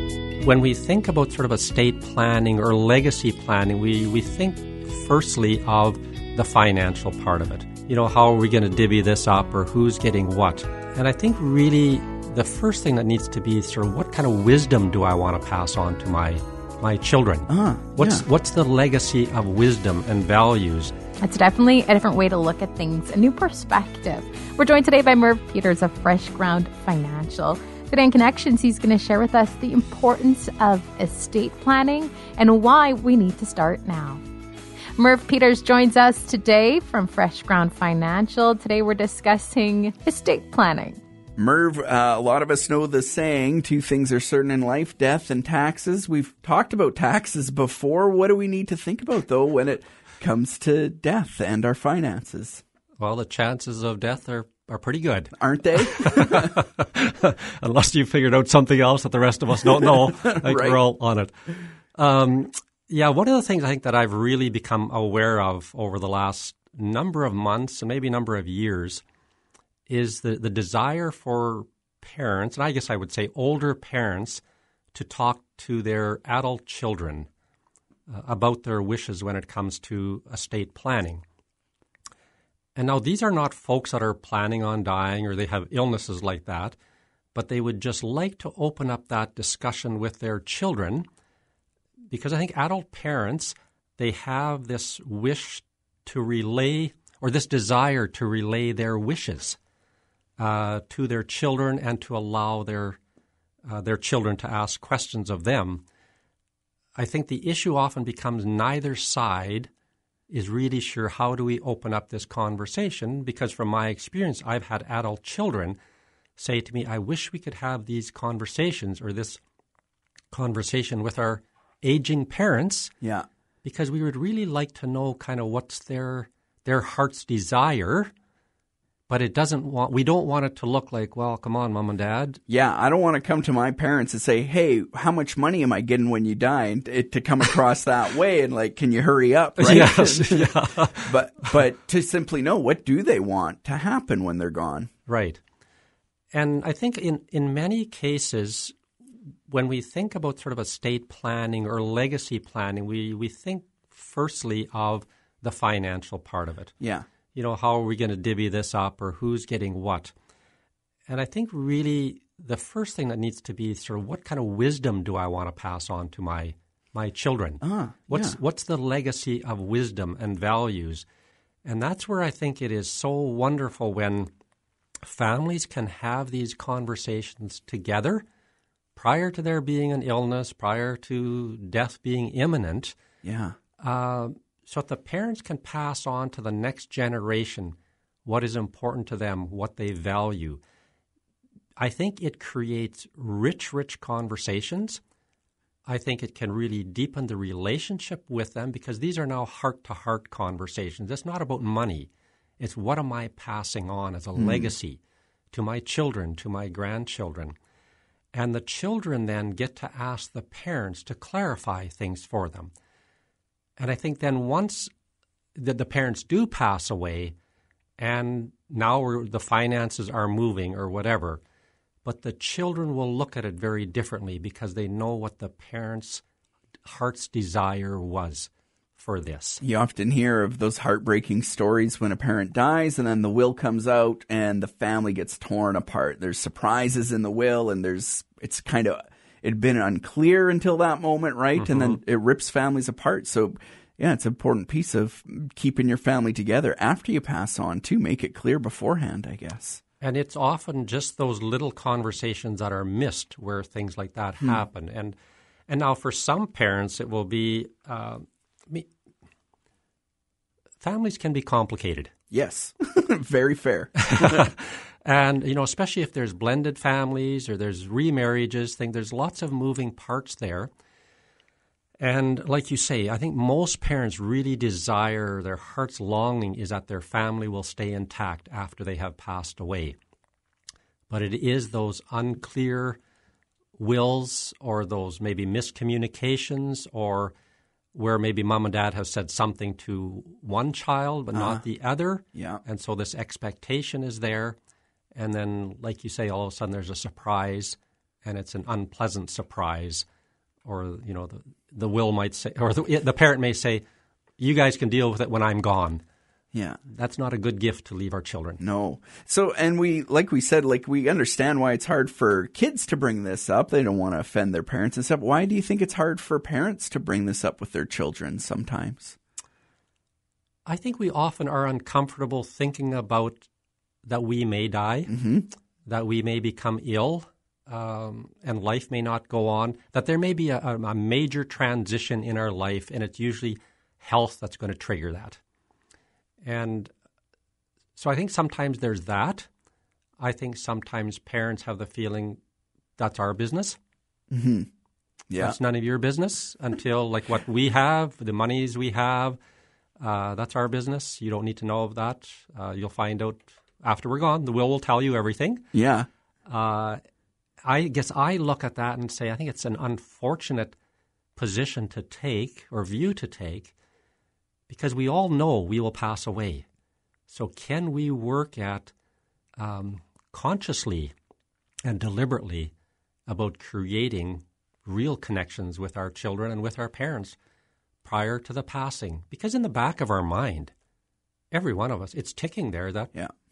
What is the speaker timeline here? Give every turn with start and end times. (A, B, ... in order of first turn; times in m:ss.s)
0:00.4-0:20.9 A
0:17.5-0:18.2 B
0:21.2-0:34.2 C
0:35.0-0:41.0 C
0:41.4-0:52.6 B
0:53.0-1:09.0 A
0:55.4-0:56.6 B
0:59.8-1:00.8 B
1:09.9-1:14.4 A
1:14.9-1:17.3 A
1:18.1-1:21.2 A
1:22.8-1:26.8 A
1:27.3-1:31.1 A
1:32.1-1:39.6 A
1:40.4-1:43.0 A
1:43.6-1:45.8 A
1:47.0-1:49.7 A
1:50.3-1:55.8 A
1:56.4-1:59.4 A
2:00.3-2:02.9 A
2:03.6-2:08.1 A
2:09.1-2:12.4 A
2:12.5-2:24.9 B
2:19.6-2:21.2 A
2:25.1-2:25.4 A
2:26.3-2:28.8 A
2:29.5-2:36.7 A
2:37.3-2:40.1 A
2:41.1-2:51.0 A
2:47.6-2:48.4 B
2:51.6-2:54.3 A
2:55.0-2:58.2 A
2:58.9-3:03.0 A
3:03.2-3:03.5 B
3:03.8-3:10.6 A
3:11.8-3:15.0 A
3:15.8-3:25.0 A
3:24.4-3:24.7 B
3:25.5-3:27.6 A
3:28.3-3:32.7 A
3:33.8-3:34.9 A
3:35.5-3:37.3 A
3:38.0-3:41.4 A
3:42.0-3:46.2 A
3:46.8-3:49.6 A
3:49.6-4:09.8 B
4:01.6-4:02.0 A
4:10.0-4:15.2 A
4:15.7-4:18.9 A
4:20.8-4:22.1 A
4:22.3-4:24.5 B
4:24.0-4:30.7 A
4:32.0-4:40.0 A
4:41.1-4:43.0 A
4:43.8-4:47.3 A
4:47.9-4:54.6 A
4:51.3-4:51.6 B
4:52.3-4:52.6 B
4:55.1-5:00.0 A
5:00.6-5:03.8 A
5:04.4-5:06.0 A
5:06.5-5:06.8 B
5:06.8-5:08.6 A
5:08.6-5:19.2 B
5:20.6-5:23.5 A
5:24.0-5:25.1 A
5:25.1-5:25.5 B
5:25.8-5:35.4 A
5:36.4-5:36.9 A
5:38.0-5:39.5 A
5:40.2-5:42.4 A
5:43.0-5:43.8 A
5:44.3-5:44.7 B
5:45.3-5:45.6 B
5:45.4-5:49.4 A
5:50.0-5:55.6 A
5:55.7-5:56.1 B
5:56.5-5:57.0 A
5:57.6-6:00.8 A
6:01.4-6:03.7 A
6:04.7-6:06.6 A
6:07.3-6:08.9 A
6:09.6-6:11.1 A
6:11.8-6:12.7 A
6:13.3-6:17.4 A
6:18.0-6:20.7 A
6:21.5-6:23.1 A